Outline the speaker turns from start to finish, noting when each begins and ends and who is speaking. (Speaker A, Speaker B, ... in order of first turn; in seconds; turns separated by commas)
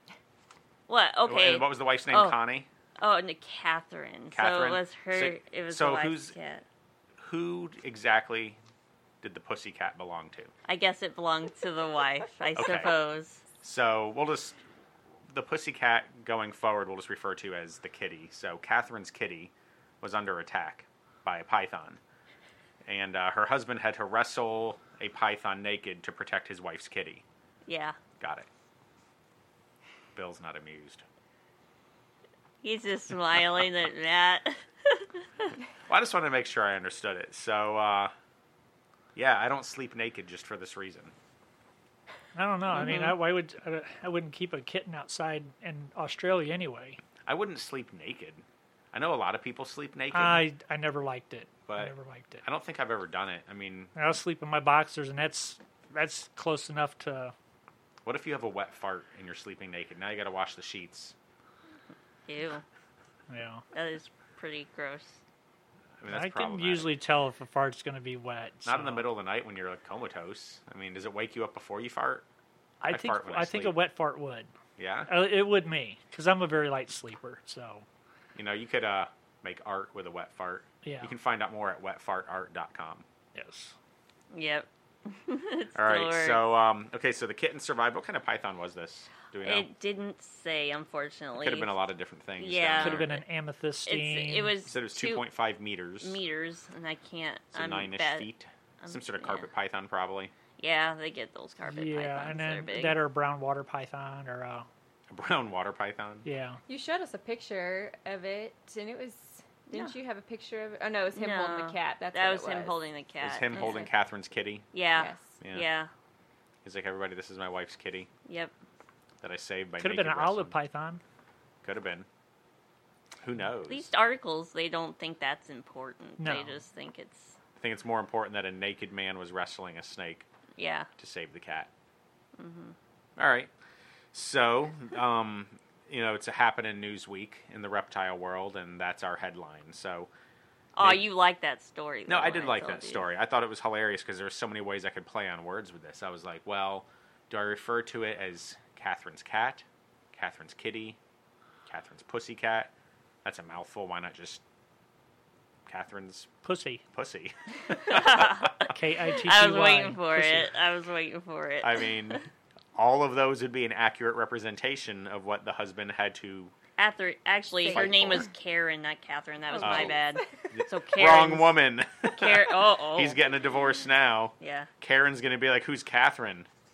Speaker A: 0.9-2.4, Speaker B: 1.2-2.7, Speaker A: 3.0-6.6, Speaker B: 4.3-6.3, Speaker B: 7.2-8.6, Speaker B: 9.2-10.5, Speaker A: 10.7-13.4, Speaker B: 12.5-12.9, Speaker B: 13.6-14.6, Speaker B: 15.3-22.0, Speaker B: 22.9-27.2, Speaker A: 27.7-28.0, Speaker B: 28.2-28.5, Speaker B: 30.1-31.0, Speaker A: 32.6-35.5, Speaker B: 35.9-38.1, Speaker B: 39.1-41.1, Speaker C: 42.3-47.0, Speaker A: 42.7-43.1, Speaker B: 47.2-50.5, Speaker C: 50.1-52.4, Speaker B: 51.7-53.9, Speaker C: 53.9-57.3, Speaker B: 58.0-61.1, Speaker A: 62.3-62.6, Speaker C: 63.3-63.6, Speaker A: 63.7-65.2, Speaker B: 66.0-66.9, Speaker C: 66.1-69.1, Speaker B: 68.6-72.2, Speaker C: 72.8-74.5, Speaker B: 72.9-73.8, Speaker B: 74.8-75.1, Speaker C: 75.1-77.8, Speaker B: 78.3-83.0, Speaker C: 80.8-81.1, Speaker C: 83.3-83.8, Speaker A: 84.3-86.5, Speaker B: 85.7-89.7, Speaker A: 89.4-91.7, Speaker B: 91.3-93.1, Speaker A: 92.4-93.2, Speaker C: 92.8-94.5, Speaker A: 93.8-95.2, Speaker B: 94.7-96.2, Speaker A: 96.0-98.3, Speaker B: 97.5-100.3, Speaker A: 98.8-99.5, Speaker A: 100.6-103.0, Speaker C: 101.7-104.7, Speaker B: 105.1-106.3, Speaker C: 106.2-106.6, Speaker D: 106.7-112.8, Speaker A: 111.1-113.9, Speaker B: 113.2-114.7, Speaker D: 113.5-113.9, Speaker A: 114.7-115.9, Speaker D: 115.0-115.3, Speaker B: 115.4-115.7, Speaker B: 116.6-118.1, Speaker A: 118.2-118.5, Speaker B: 119.2-120.5, Speaker C: 119.8-121.0, Speaker B: 121.6-122.1, Speaker B: 123.2-123.9, Speaker A: 123.7-127.4, Speaker C: 126.2-126.6, Speaker B: 127.6-130.3, Speaker A: 130.6-130.9, Speaker B: 131.0-131.7, Speaker A: 132.4-132.7, Speaker B: 133.2-133.5, Speaker B: 134.1-140.1, Speaker A: 140.8-143.1, Speaker B: 140.8-141.0, Speaker B: 142.1-151.0, Speaker B: 151.7-152.7, Speaker B: 153.2-154.4, Speaker B: 155.7-156.3, Speaker C: 156.4-156.8, Speaker B: 156.9-158.7, Speaker A: 157.8-162.2, Speaker C: 158.7-160.5, Speaker B: 161.6-166.5, Speaker A: 166.8-171.6, Speaker D: 167.6-168.3, Speaker B: 167.7-168.2, Speaker D: 169.6-169.9, Speaker B: 169.6-176.5, Speaker A: 172.1-173.2, Speaker A: 174.4-174.7